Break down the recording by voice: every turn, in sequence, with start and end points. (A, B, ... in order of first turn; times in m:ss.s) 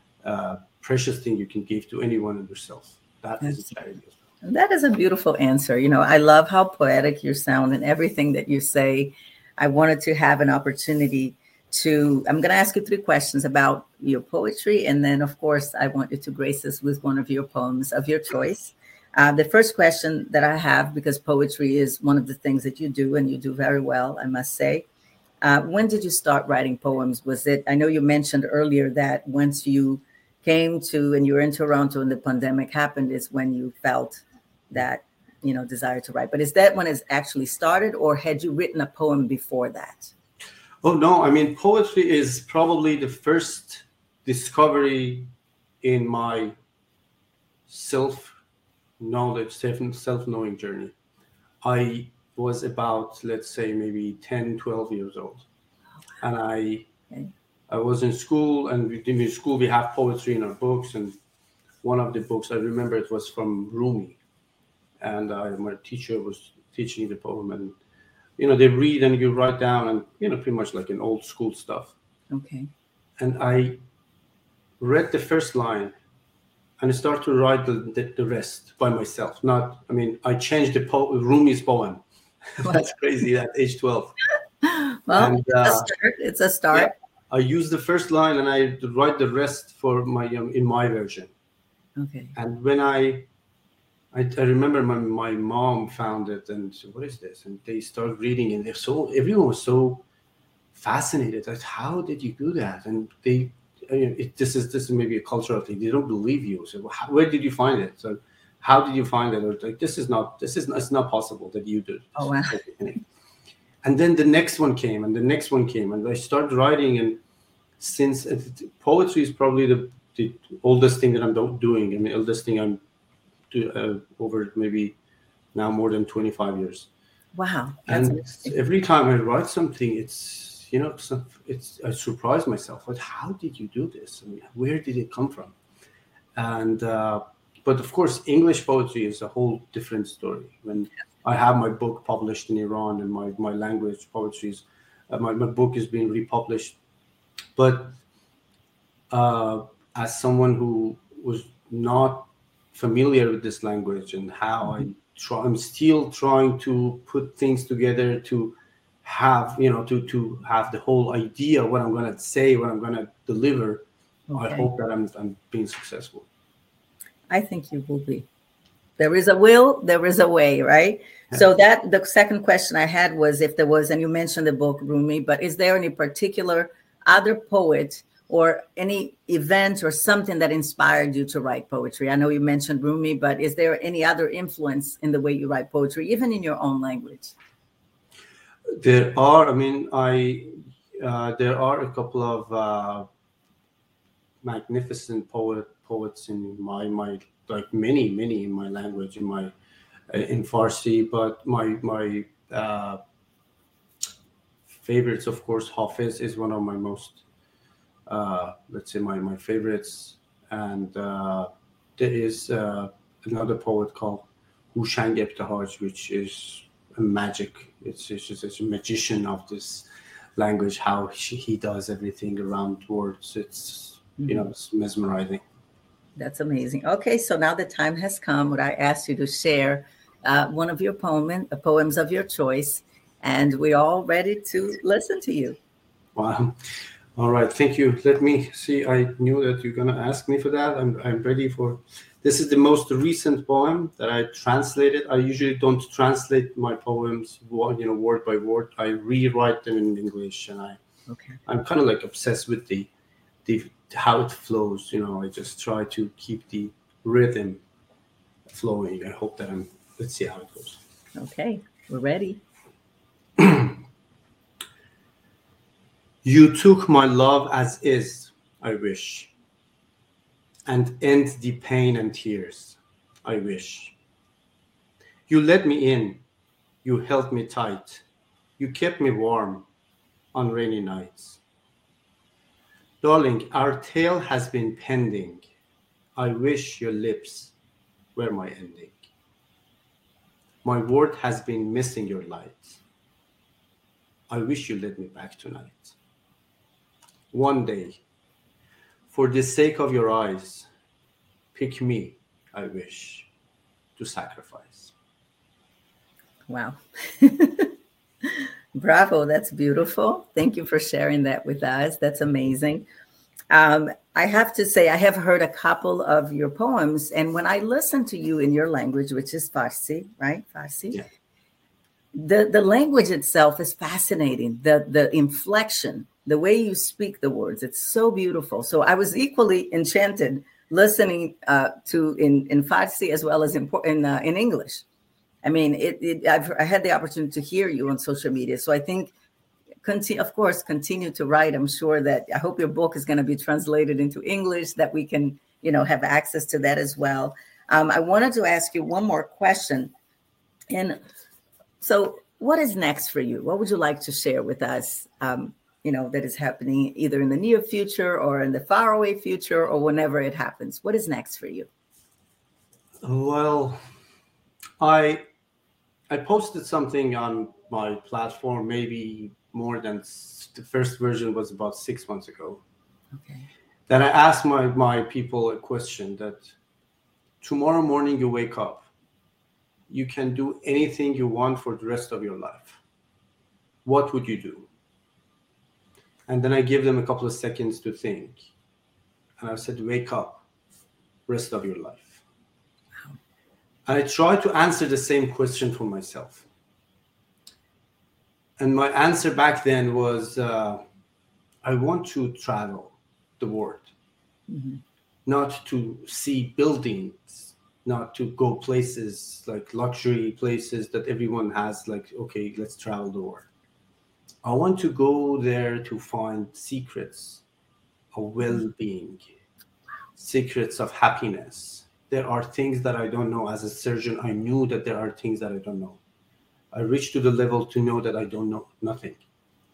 0:00.2-0:04.2 A
0:03.4-0:03.7 B
0:04.4-0:24.8 B
0:25.4-0:40.1 B
0:40.8-0:45.3 A
0:45.8-0:46.6 A
0:47.7-0:48.4 A
0:49.0-0:50.9 A
0:51.6-0:55.4 A
0:56.2-0:56.9 A
0:57.7-1:01.2 A
1:01.8-1:04.2 A
1:05.0-1:07.8 A
1:08.4-1:11.9 A
1:12.3-1:12.7 B
1:13.2-1:13.8 A
1:14.8-1:15.9 A
1:16.8-1:22.0 A
1:22.5-1:24.1 A
1:24.6-1:26.9 B
1:25.1-1:25.9 A
1:26.7-1:31.3 A
1:32.0-1:32.3 B
1:32.4-1:33.3 A
1:34.1-1:40.0 A
1:40.7-1:53.0 A
1:52.2-1:52.6 B
1:53.8-1:57.2 A
1:57.8-2:02.8 A
2:03.5-2:05.0 A
2:05.5-2:06.9 A
2:07.3-2:08.6 B
2:07.9-2:15.5 A
2:16.4-2:26.8 A
2:27.6-2:28.0 A
2:29.1-2:46.2 A
2:44.3-2:44.7 B
2:47.3-2:48.2 B
2:49.0-3:07.3 B
3:08.8-3:13.1 A
3:14.4-3:19.5 A
3:20.1-3:23.0 A
3:24.8-3:27.2 A
3:28.1-3:45.4 A
3:44.2-3:44.5 B
3:46.2-3:55.6 B
3:56.1-3:56.6 A
3:57.2-4:10.8 A
4:11.1-4:11.4 B
4:11.4-4:12.9 A
4:13.4-4:17.6 A
4:18.5-4:20.8 A
4:21.2-4:22.4 B
4:23.4-4:23.8 A
4:26.2-4:29.3 A
4:30.7-4:33.9 A
4:35.3-4:36.2 A
4:36.8-4:38.0 A
4:38.6-4:39.6 A
4:40.3-4:41.4 A
4:43.0-4:45.4 A
4:46.2-4:47.5 A
4:48.1-4:49.1 A
4:50.6-4:52.8 A
4:54.3-4:56.0 A
4:57.3-4:58.0 A
4:59.1-5:00.7 A
5:01.5-5:03.3 A
5:04.0-5:04.9 A
5:06.5-5:07.7 B
5:08.2-5:12.8 B
5:13.5-5:21.0 B
5:22.1-5:34.8 B
5:35.4-5:39.1 B
5:39.8-5:49.9 B
5:50.7-5:51.0 B
5:51.8-6:01.7 B
6:03.0-6:03.8 A
6:04.8-6:05.2 A
6:06.1-6:12.6 A
6:13.2-6:13.5 B
6:13.9-6:16.5 A
6:17.4-6:18.9 A
6:19.9-6:22.8 A
6:23.8-6:24.7 A
6:26.3-6:28.4 A
6:29.4-6:30.4 A
6:31.3-6:32.2 A
6:33.8-6:36.4 A
6:38.6-6:40.8 A
6:41.6-6:43.9 A
6:44.5-6:44.8 B
6:45.2-6:53.5 A
6:54.4-6:57.4 A
6:58.1-6:59.2 A
7:00.2-7:06.0 A
7:06.7-7:09.2 A